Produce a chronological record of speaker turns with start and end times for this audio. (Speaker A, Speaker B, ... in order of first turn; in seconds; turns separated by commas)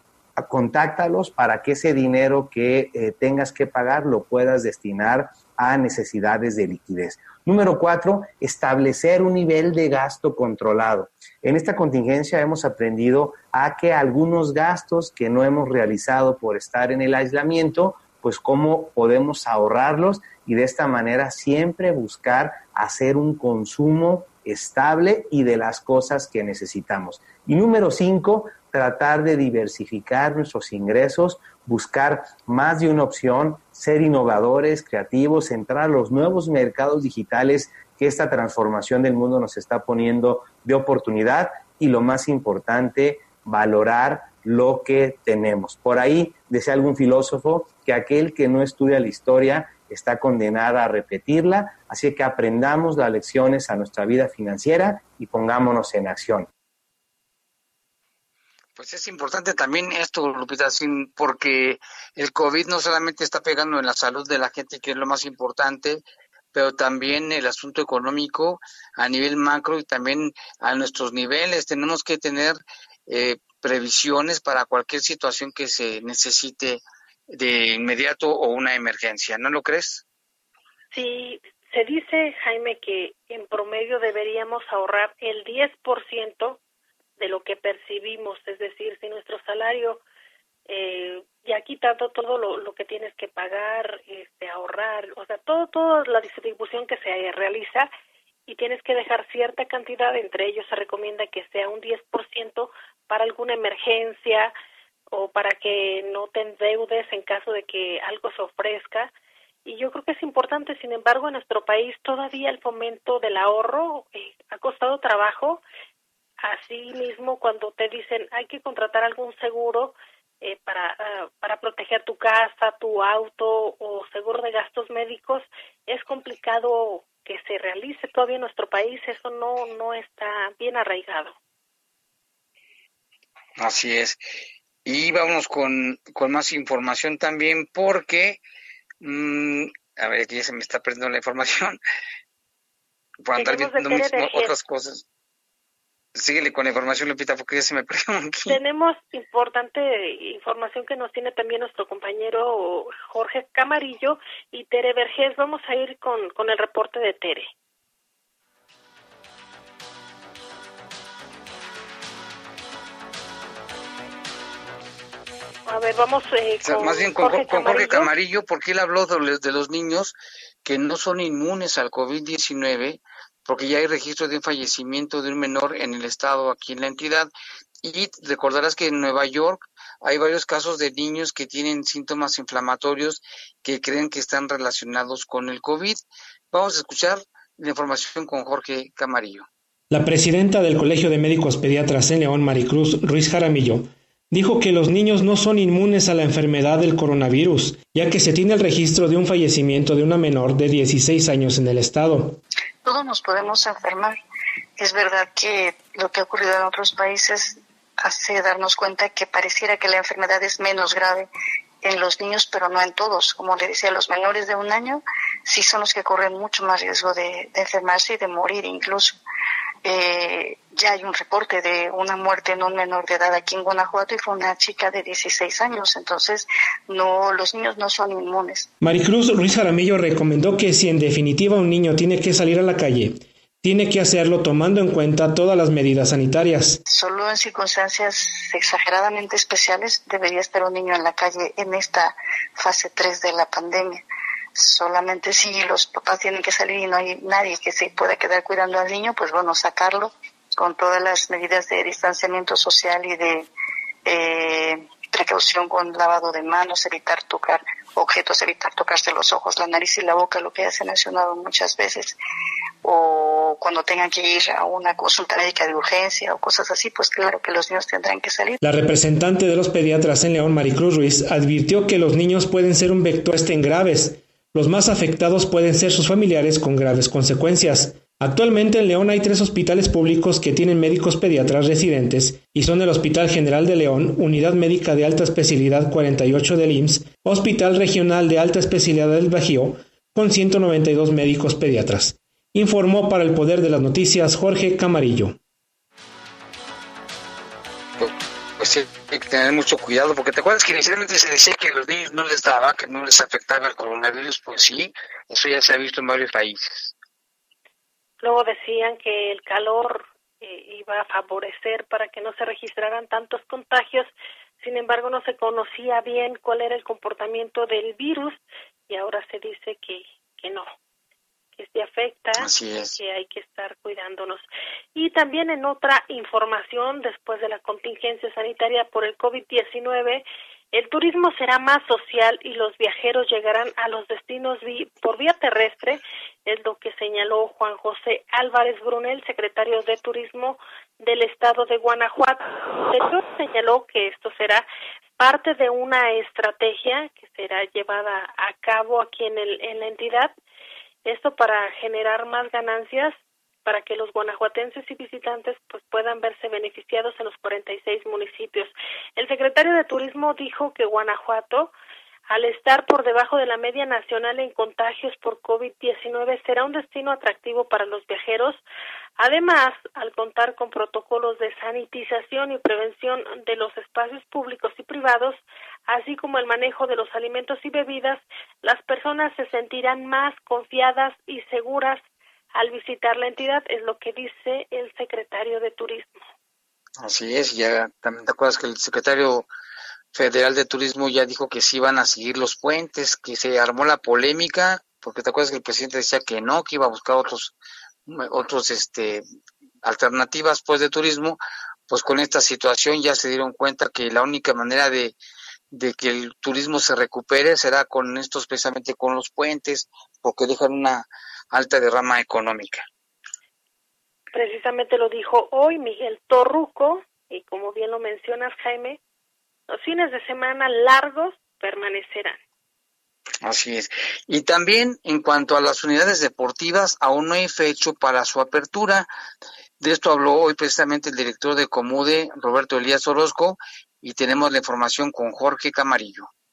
Speaker A: 0.4-56.5, Speaker B: 58.8-80.0, Speaker C: 80.9-86.6, Speaker C: 87.2-90.0, Speaker C: 90.7-97.9, Speaker C: 98.5-104.5, Speaker C: 105.1-109.1, Speaker C: 109.7-115.6, Speaker C: 116.4-131.4, Speaker B: 133.6-134.2, Speaker B: 134.8-138.4, Speaker B: 139.0-141.8, Speaker B: 143.2-145.1, Speaker C: 143.4-144.5, Speaker B: 146.2-148.6, Speaker C: 148.5-157.5, Speaker C: 165.7-168.1, Speaker B: 166.6-177.3, Speaker B: 177.8-189.5, Speaker D: 189.9-202.4, Speaker E: 202.8-204.2, Speaker E: 204.8-211.3, Speaker E: 211.8-219.2, Speaker E: 219.8-228.7, Speaker D: 228.8-236.8, Speaker E: 236.9-244.0, Speaker E: 244.6-253.5, Speaker E: 254.1-262.2, Speaker E: 262.8-268.6, Speaker D: 268.6-295.4, Speaker B: 298.0-306.9, Speaker C: 308.2-320.7, Speaker C: 321.6-344.6, Speaker B: 322.4-323.0, Speaker C: 345.2-350.4, Speaker C: 351.1-361.7, Speaker C: 362.3-368.6, Speaker C: 369.2-386.2, Speaker B: 387.0-389.5, Speaker B: 390.1-397.6, Speaker B: 398.1-399.2, Speaker B: 399.8-405.2, Speaker B: 405.7-412.9, Speaker C: 414.3-419.0, Speaker C: 419.7-422.4, Speaker B: 423.4-429.1, Speaker B: 429.8-436.3